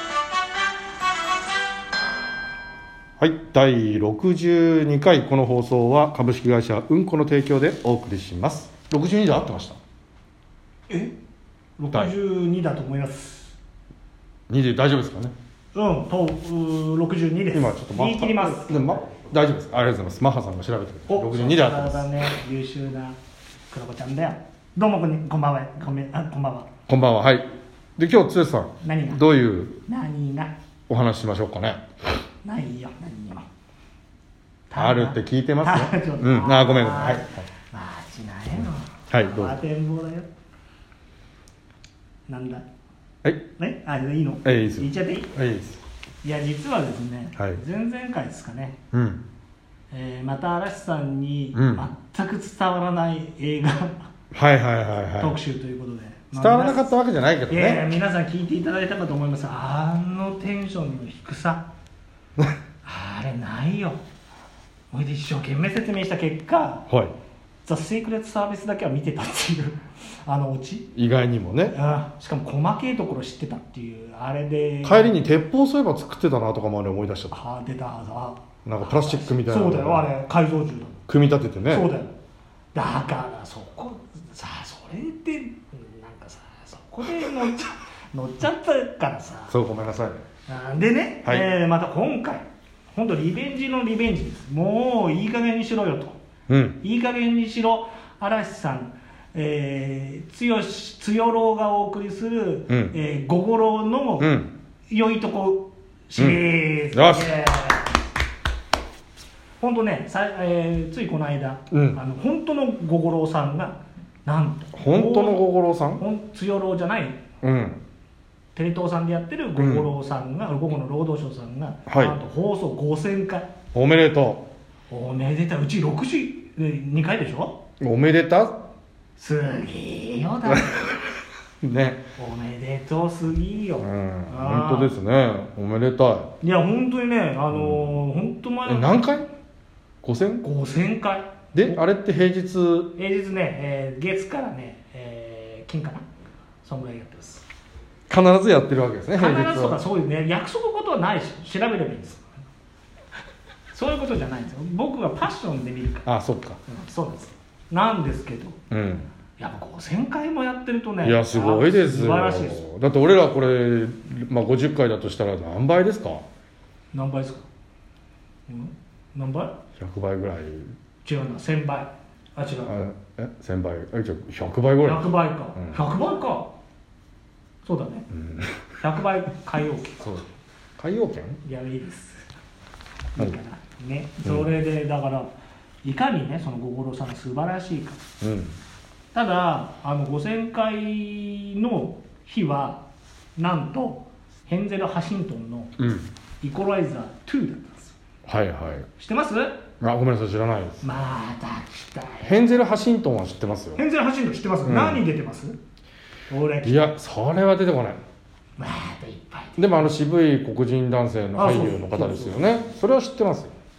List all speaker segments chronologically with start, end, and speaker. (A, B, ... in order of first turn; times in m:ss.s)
0:03.2-0:09.8 A
0:11.8-0:13.6 B
0:14.5-0:15.3 A
0:15.7-0:19.1 B
0:17.5-0:22.2 A
0:21.1-0:23.2 B
0:23.7-0:26.7 B
0:26.9-0:29.8 A
0:28.8-0:29.2 B
0:29.8-0:30.5 B
0:30.9-0:31.8 A
0:32.4-0:33.4 B
0:34.7-0:40.3 B
0:34.8-0:37.4 A
0:39.1-0:39.6 A
0:42.3-0:42.6 B
0:43.6-0:45.3 B
0:44.4-0:45.8 A
0:46.2-0:48.8 B
0:48.9-0:49.2 A
0:49.9-0:54.1 B
0:51.5-0:51.9 A
0:54.3-0:55.4 A
0:55.2-0:56.9 B
0:56.3-0:57.8 A
0:57.5-1:01.7 B
1:02.8-1:04.0 B
1:04.9-1:06.9 B
1:06.9-1:07.1 A
1:07.6-1:10.9 B
1:10.9-1:11.7 A
1:11.7-1:15.2 B
1:14.8-1:17.4 A
1:17.3-1:21.0 B
1:18.6-1:20.1 A
1:21.1-1:21.9 A
1:21.7-1:22.2 B
1:22.7-1:29.6 B
1:29.5-1:30.2 A
1:30.5-1:36.2 B
1:36.5-1:36.8 A
1:36.8-1:44.3 B
1:42.7-1:43.0 A
1:44.2-1:44.5 A
1:44.9-1:48.0 B
1:46.2-1:47.3 A
1:49.6-1:55.4 B
1:51.7-1:52.0 A
1:54.7-1:56.0 A
1:56.0-1:57.2 B
1:57.4-1:57.8 A
1:58.5-2:03.5 B
1:59.6-1:59.9 A
2:01.9-2:02.2 A
2:03.7-2:04.5 A
2:04.9-2:07.6 B
2:07.8-2:08.6 A
2:09.2-2:11.1 B
2:11.6-2:12.0 A
2:12.2-2:14.9 B
2:13.8-2:16.3 A
2:16.4-2:19.1 B
2:17.5-2:17.9 A
2:18.6-2:19.3 A
2:20.0-2:20.4 A
2:20.4-2:21.8 B
2:21.5-2:22.9 A
2:22.9-2:26.0 B
2:26.6-2:27.4 B
2:28.1-2:29.8 A
2:29.1-2:32.3 B
2:33.7-2:36.1 B
2:36.0-2:36.6 A
2:36.7-2:38.6 B
2:38.7-2:39.1 A
2:39.4-2:42.6 B
2:41.0-2:46.2 A
2:46.9-2:47.4 B
2:48.5-2:49.6 B
2:49.8-2:50.7 A
2:51.0-2:52.8 B
2:52.6-2:55.8 A
2:54.8-2:56.5 B
2:57.6-2:58.1 B
2:58.2-2:58.6 A
2:58.8-3:00.2 B
3:00.0-3:00.2 A
3:00.8-3:01.4 A
3:01.4-3:02.2 B
3:03.1-3:05.3 B
3:04.2-3:04.5 A
3:05.8-3:08.0 B
3:08.2-3:08.6 A
3:09.1-3:15.7 B
3:15.8-3:16.1 A
3:16.4-3:18.0 B
3:18.2-3:18.9 A
3:19.0-3:19.6 B
3:19.8-3:20.8 A
3:20.8-3:22.6 B
3:22.2-3:23.8 A
3:23.8-3:25.6 B
3:24.6-3:25.0 A
3:26.3-3:26.9 B
3:26.6-3:28.0 A
3:28.6-3:29.8 B
3:29.6-3:33.5 A
3:31.3-3:32.6 B